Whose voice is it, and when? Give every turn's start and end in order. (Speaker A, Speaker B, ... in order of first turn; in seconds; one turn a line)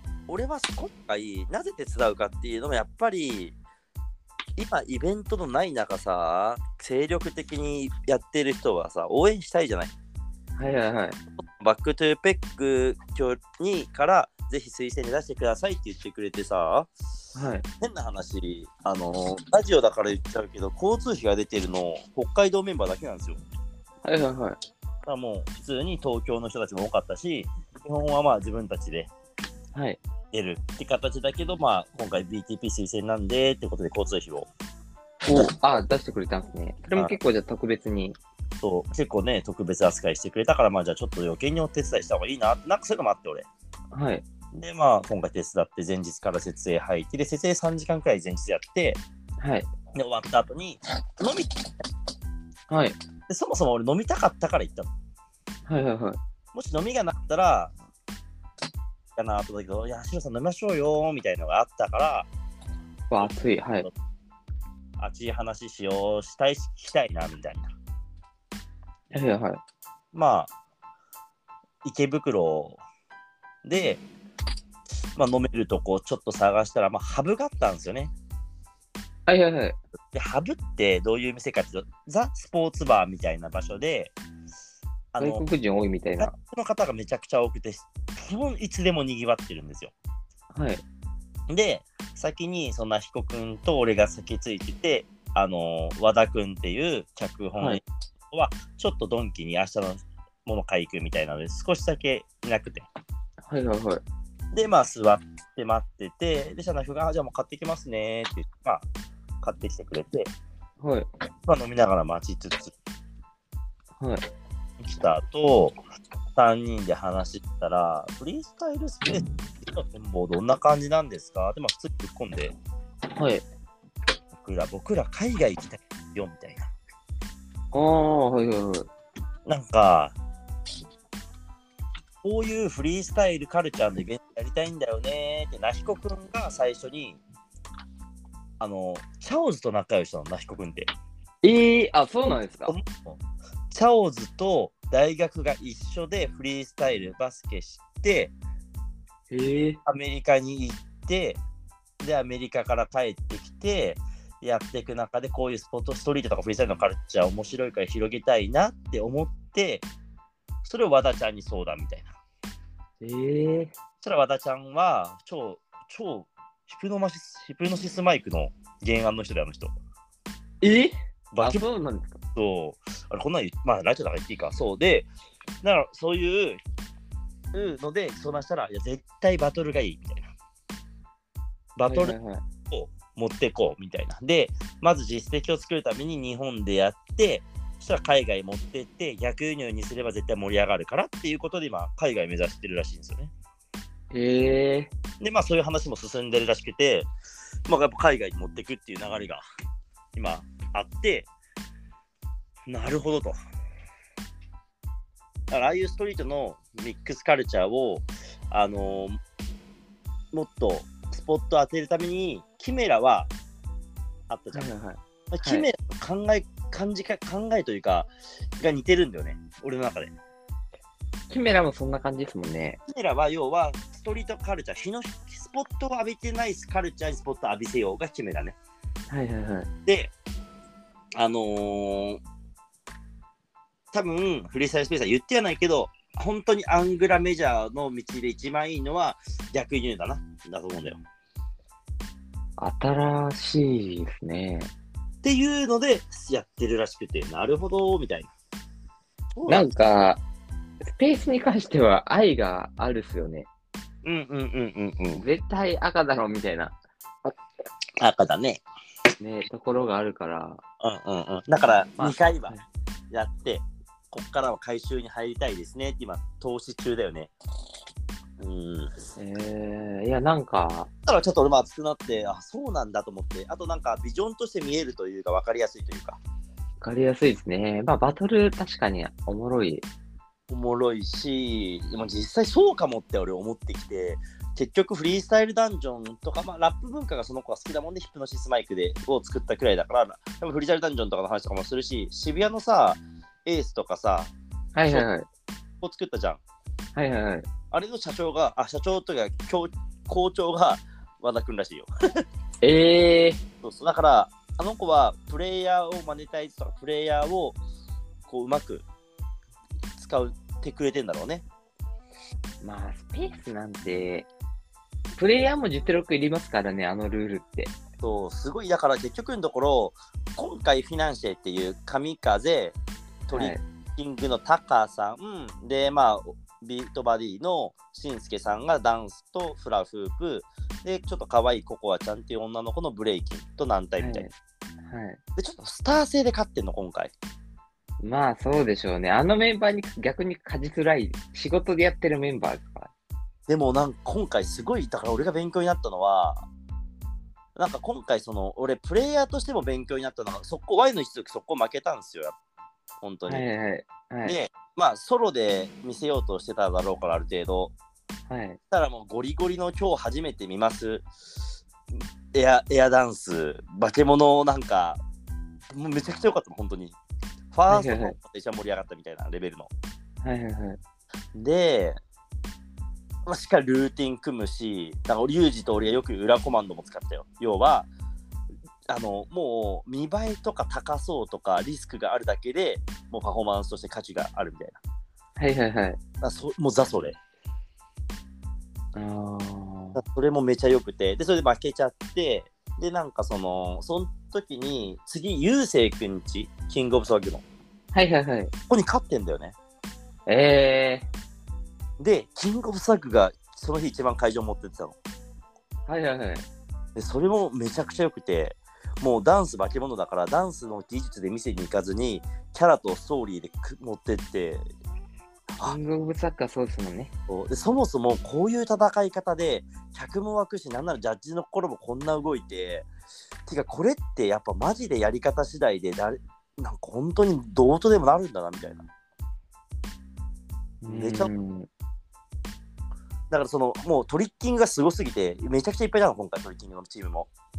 Speaker A: 0.3-3.6
Speaker A: 4.6-9.9
Speaker B: 10.6-11.2
Speaker A: 11.6-16.9
Speaker B: 17.4-17.6
Speaker A: 17.8-23.4
Speaker B: 24.0-24.6
Speaker A: 25.1-29.1
Speaker B: 29.7-30.0
Speaker A: 30.3-34.5
Speaker B: 35.2-38.2
Speaker A: 38.6-43.5
Speaker B: 43.9-44.2
Speaker A: 44.5-49.0
Speaker B: 49.4-49.7
Speaker A: 49.9-51.5
Speaker B: 52.7-53.0
Speaker A: 53.3-54.9
Speaker B: 55.7-56.2
Speaker A: 56.5-57.7
Speaker A: 59.2-62.3
Speaker B: 63.1-63.9
Speaker A: 65.0-67.7
Speaker B: 69.1-69.6
Speaker A: 70.1-70.5
Speaker A: 71.8-72.8
Speaker A: 73.6-74.0
Speaker A: 75.2-78.1
Speaker B: 79.3-79.8
Speaker A: 80.1-84.1
Speaker A: 85.1-85.5
Speaker B: 85.2-86.3
Speaker A: 86.2-89.9
Speaker B: 90.5-90.8
Speaker A: 91.5-102.9
Speaker B: 103.5-104.0
Speaker A: 104.5-108.9
Speaker A: 109.4-110.3
Speaker B: 110.8-111.1
Speaker A: 111.5-112.7
Speaker A: 114.8-115.8
Speaker A: 116.4-122.5
Speaker B: 123.1-123.4
Speaker A: 124.4-126.7
Speaker B: 127.7-128.9
Speaker A: 129.5-130.2
Speaker A: 132.2-137.2
Speaker A: 138.6-140.9
Speaker B: 141.4-142.8
Speaker A: 142.6-143.2
Speaker A: 143.7-148.3
Speaker B: 149.3-149.8
Speaker A: 149.9-151.4
Speaker A: 152.0-159.8
Speaker A: 160.6-162.1
Speaker B: 163.0-163.7
Speaker A: 164.0-169.8
Speaker B: 170.6-172.2
Speaker A: 171.3-171.6
Speaker A: 172.3-175.1
Speaker A: 175.6-176.6
Speaker A: 177.5-180.3
Speaker A: 181.8-182.2
Speaker B: 181.9-182.4
Speaker A: 182.7-193.3
Speaker B: 194.1-194.9
Speaker A: 195.2-197.1
Speaker A: 197.7-199.4
Speaker A: 200.2-201.3
Speaker A: 202.7-203.3
Speaker A: 205.5-209.2
Speaker A: 210.3-213.3
Speaker A: 214.3-214.7
Speaker B: 214.5-215.7
Speaker A: 215.3-220.1
Speaker B: 221.3-222.8
Speaker A: 222.9-228.6
Speaker B: 229.1-229.7
Speaker A: 229.9-230.1
Speaker A: 231.2-232.2
Speaker A: 233.9-241.0
Speaker B: 242.6-244.7
Speaker A: 245.2-248.3
Speaker A: 249.3-249.7
Speaker B: 249.5-250.2
Speaker B: 250.8-253.5
Speaker A: 254.0-255.2
Speaker B: 255.2-256.7
Speaker A: 258.0-258.6
Speaker B: 259.2-260.6
Speaker A: 260.8-262.6
Speaker B: 262.0-262.6
Speaker A: 263.1-267.3
Speaker A: 268.4-268.9
Speaker B: 269.2-270.9
Speaker A: 271.1-276.2
Speaker B: 276.8-279.9
Speaker A: 280.5-294.3
Speaker B: 294.8-295.3
Speaker A: 295.8-296.4
Speaker B: 297.0-297.5
Speaker A: 297.7-301.9
Speaker B: 302.6-303.4
Speaker A: 303.6-307.6
Speaker A: 308.3-308.9
Speaker A: 310.0-311.4
Speaker B: 312.6-314.3
Speaker B: 315.2-317.7
Speaker A: 318.0-322.8
Speaker A: 323.3-334.2
Speaker B: 323.3-323.6
Speaker B: 334.0-334.3
Speaker B: 334.8-335.2
Speaker A: 335.4-337.1
Speaker B: 338.0-342.9
Speaker A: 343.5-346.4
Speaker A: 347.6-352.4
Speaker A: 353.0-353.4
Speaker B: 353.3-354.4
Speaker A: 354.2-357.7
Speaker B: 358.3-358.6
Speaker A: 358.7-361.1
Speaker A: 362.3-365.0
Speaker A: 365.7-367.0
Speaker A: 367.5-369.7
Speaker B: 367.7-368.2
Speaker B: 370.2-370.8
Speaker A: 371.3-372.0
Speaker A: 373.3-377.9
Speaker A: 378.9-384.8
Speaker B: 385.4-386.0
Speaker A: 386.2-387.2
Speaker B: 388.9-390.0
Speaker A: 389.9-397.4
Speaker B: 397.9-398.5
Speaker A: 398.7-399.6
Speaker B: 400.3-401.1
Speaker A: 402.0-405.0
Speaker B: 405.9-406.4
Speaker A: 407.0-414.6
Speaker B: 415.6-417.1
Speaker A: 417.3-422.9
Speaker A: 423.5-428.9
Speaker B: 430.8-431.7
Speaker A: 430.9-431.3
Speaker A: 433.3-437.3